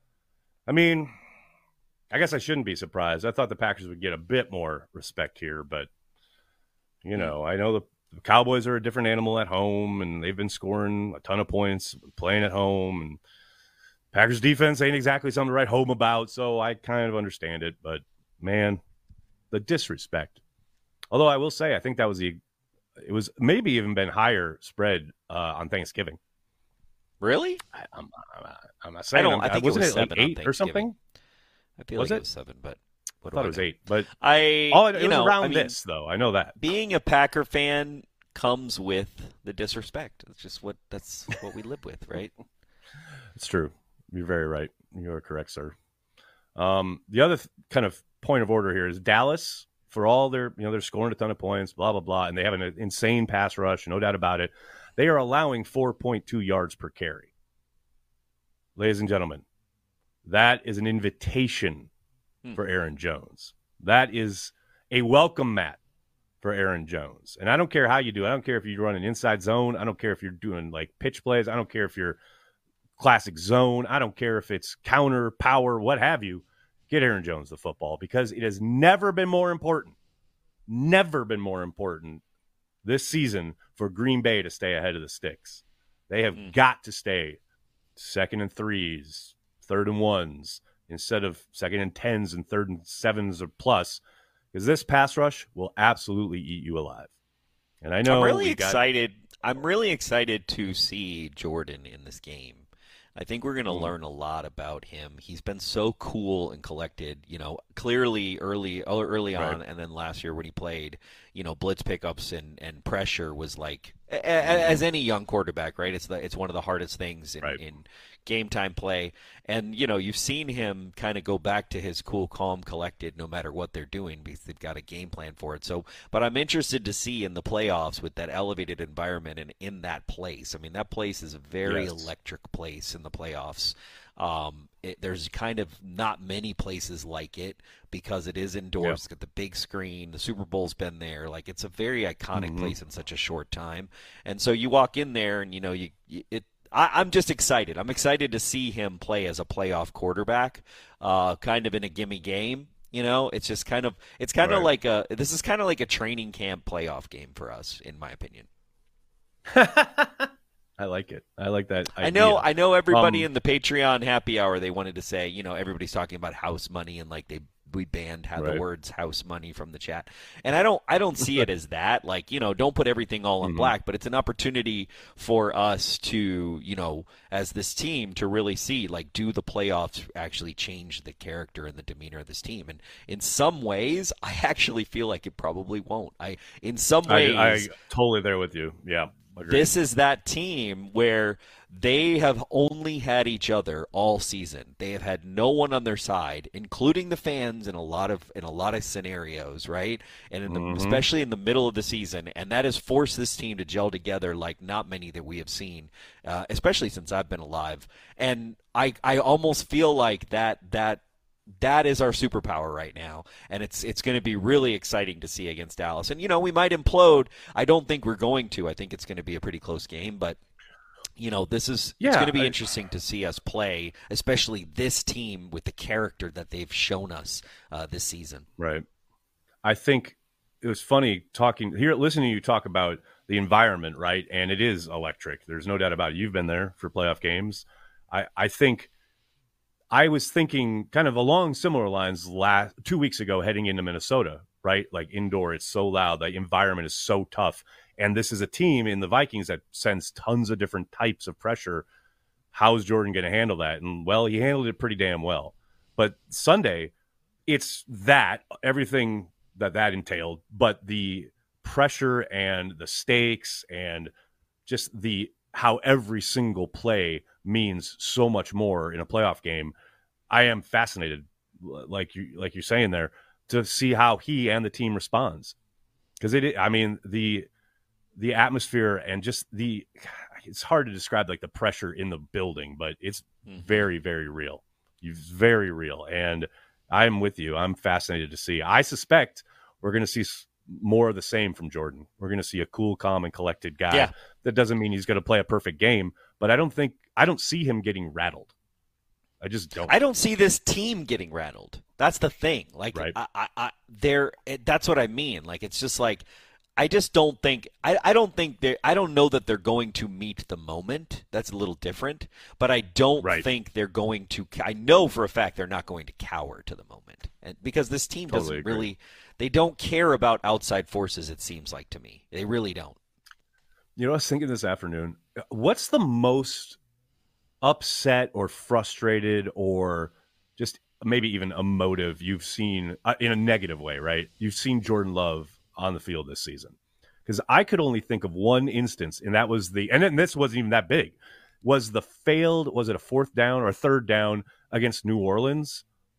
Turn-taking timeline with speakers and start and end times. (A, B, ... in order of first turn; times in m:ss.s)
0:00.7-0:01.1 A
0:02.1-0:05.9 A
0:07.0-0:13.2 A
0:14.1-0:18.8 A
0:19.5-0:20.4 A
0:21.1-0:22.4 A
0:23.0-0:26.2 A
0:27.2-0:27.6 B
0:27.7-0:30.9 A
0:29.1-0:30.9 B
0:31.8-0:33.7 B
0:32.0-0:32.2 A
0:33.3-0:34.1 A
0:34.2-0:35.7 B
0:34.7-0:36.5 A
0:36.6-0:42.3 B
0:43.4-0:45.7 A
0:46.6-0:57.3 A
0:58.8-0:59.4 A
1:00.2-1:01.9 A
1:02.5-1:05.8 A
1:06.4-1:12.2 A
1:13.0-1:20.0 A
1:20.7-1:22.2 A
1:22.8-1:27.4 A
1:28.0-1:34.0 A
1:34.5-1:37.1 A
1:37.8-1:38.8 A
1:38.0-2:38.5 B
1:43.7-1:43.9 A
1:54.4-1:54.8 A
2:11.6-2:12.1 A
2:22.3-2:22.7 A
2:34.4-2:34.7 A
2:39.5-2:43.3 A
2:42.0-3:07.7 B
2:48.4-2:48.6 A
2:53.4-2:53.7 A
3:07.0-3:09.7 A
3:09.5-3:31.0 B
3:20.5-3:21.0 A
3:31.6-3:40.4 B
3:41.2-3:48.4 B
3:42.0-3:42.6 A
3:48.6-3:48.8 A
3:49.6-3:58.9 A
3:59.9-4:11.8 A
4:12.5-4:16.9 A
4:17.5-4:24.1 A
4:24.6-4:29.7 A
4:30.3-4:35.5 A
4:36.2-4:37.5 A
4:38.2-4:58.5 A
4:43.4-4:43.9 B
4:59.4-4:59.9 A
4:59.8-5:06.2 B
5:06.8-5:23.0 B
5:13.2-5:13.4 A
5:18.3-5:18.9 A
5:24.0-5:26.8 A
5:27.6-5:45.8 A